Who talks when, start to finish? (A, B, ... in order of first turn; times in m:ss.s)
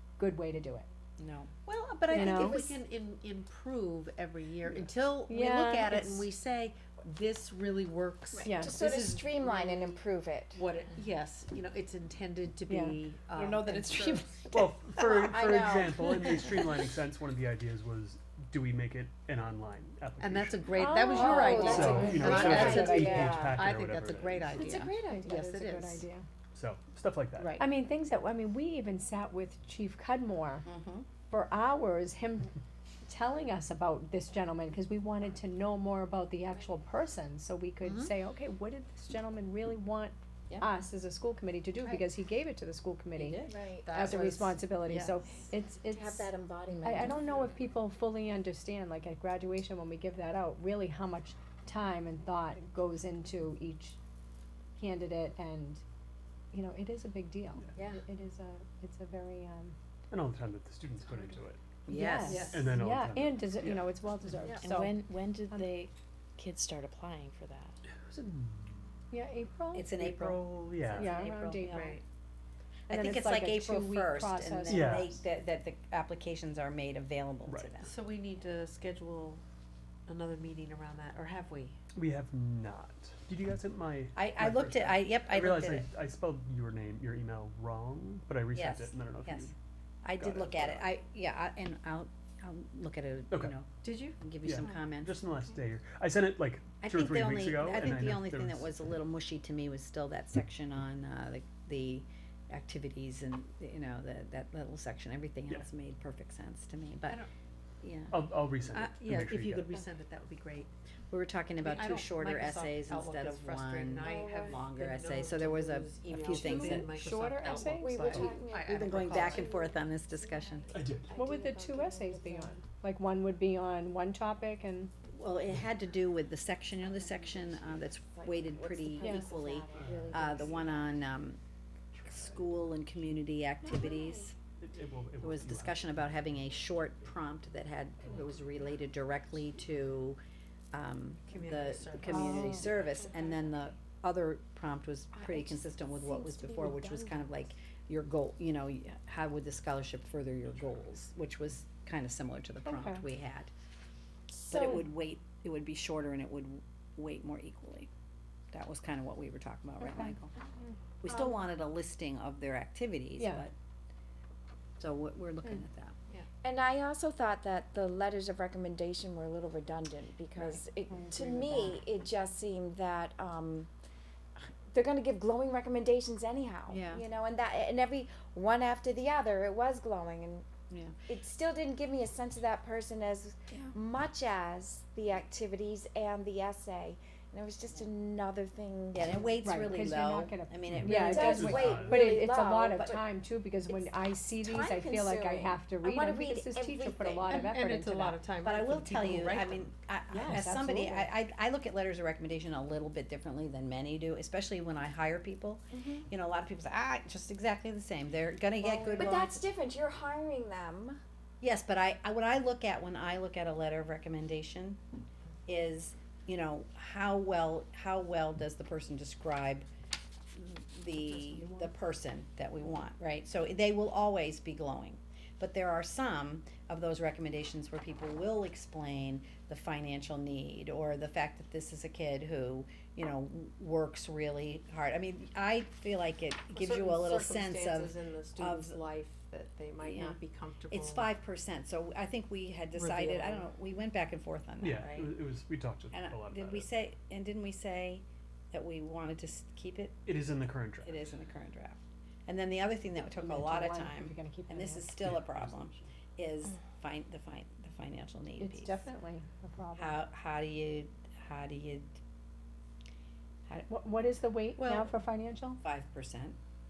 0:00.2-0:00.9 A
0:01.2-0:01.5 B
0:01.7-0:10.0 C
0:02.1-0:02.8 D
0:02.1-0:02.6 A
0:05.3-0:06.3 A
0:08.3-0:10.6 D
0:08.4-0:08.8 A
0:10.5-0:14.4 C
0:12.7-0:15.0 A
0:14.5-0:20.7 E
0:15.0-0:16.6 D
0:20.2-0:26.0 C
0:20.7-0:23.4 A
0:21.0-0:23.7 D
0:21.6-0:24.6 E
0:24.6-0:26.2 A
0:24.6-0:25.2 D
0:26.5-0:27.6 E
0:27.4-0:27.6 C
0:27.6-0:30.7 A
0:30.6-0:31.1 B
0:31.3-0:32.5 A
0:33.1-0:46.3 A
0:37.8-0:38.1 B
0:43.2-0:43.6 B
0:43.5-0:43.9 D
0:43.8-0:45.2 C
0:45.9-0:47.4 D
0:46.8-0:54.0 A
0:54.8-0:55.8 A
0:56.5-0:59.8 A
0:57.8-0:58.0 C
1:00.1-1:01.6 E
1:01.9-1:02.5 B
1:01.9-1:05.0 A
1:02.3-1:02.6 C
1:02.5-1:03.9 E
1:04.6-1:05.7 B
1:04.6-1:07.7 F
1:05.5-1:05.8 A
1:06.6-1:07.4 B
1:07.9-1:09.0 E
1:09.1-1:12.0 A
1:09.7-1:12.0 B
1:10.5-1:11.1 E
1:11.6-1:12.0 C
1:12.9-1:15.2 A
1:12.9-1:17.9 B
1:14.7-1:15.1 E
1:17.5-1:17.8 E
1:17.8-1:19.4 C
1:20.1-1:21.8 C
1:21.9-1:29.6 E
1:24.2-1:25.9 B
1:28.5-1:35.2 B
1:30.1-1:30.9 E
1:33.8-1:34.2 C
1:34.4-1:39.0 E
1:36.8-1:47.2 B
1:47.8-1:49.3 B
1:48.1-1:49.7 E
1:49.1-1:50.7 C
1:51.1-1:57.1 B
1:51.6-1:59.5 C
1:54.0-1:54.6 D
1:56.2-1:56.9 D
1:56.9-1:58.4 A
1:57.5-2:02.6 D
1:58.6-2:00.7 B
2:00.7-2:01.1 E
2:01.2-2:04.9 A
2:05.1-2:11.4 B
2:06.8-2:10.9 D
2:09.0-2:09.3 A
2:09.7-2:11.0 E
2:11.9-2:12.8 E
2:12.1-2:14.4 B
2:13.6-2:14.3 D
2:14.6-2:17.2 E
2:15.2-2:20.2 B
2:18.0-2:18.5 E
2:20.7-2:33.5 B
2:21.3-2:22.8 C
2:22.1-2:22.7 A
2:22.9-2:23.6 D
2:25.1-2:27.3 D
2:30.5-2:30.8 E
2:32.7-2:33.0 A
2:34.5-2:34.8 D
2:34.5-2:37.9 B
2:38.5-2:40.3 B
2:39.8-2:40.8 A
2:41.0-2:43.5 B
2:41.1-2:41.4 D
2:43.2-2:43.5 A
2:44.8-2:46.0 B
2:46.4-2:53.7 D
2:50.9-2:51.8 A
2:54.4-3:00.5 D
2:56.7-2:57.0 B
3:00.7-3:01.0 B
3:01.1-3:09.4 D
3:08.9-3:11.8 B
3:09.4-3:18.2 A
3:10.7-3:12.2 E
3:11.0-3:13.0 D
3:14.4-3:17.4 D
3:17.3-3:21.1 C
3:18.4-3:29.4 B
3:25.7-3:26.1 D
3:28.6-3:29.2 C
3:29.0-3:31.0 D
3:31.4-3:34.8 B
3:35.5-3:39.7 B
3:40.3-3:58.8 B
3:41.1-3:41.8 A
3:56.5-4:01.1 C
3:59.8-4:05.2 B
4:02.7-4:03.5 C
4:04.6-4:06.7 E
4:05.9-4:10.0 B
4:10.1-4:11.1 E
4:10.8-4:18.8 B
4:13.2-4:14.9 A
4:15.0-4:15.9 E
4:18.4-4:20.0 A
4:19.8-4:22.0 B
4:23.7-4:25.6 A
4:24.6-4:24.9 C
4:25.6-4:26.4 B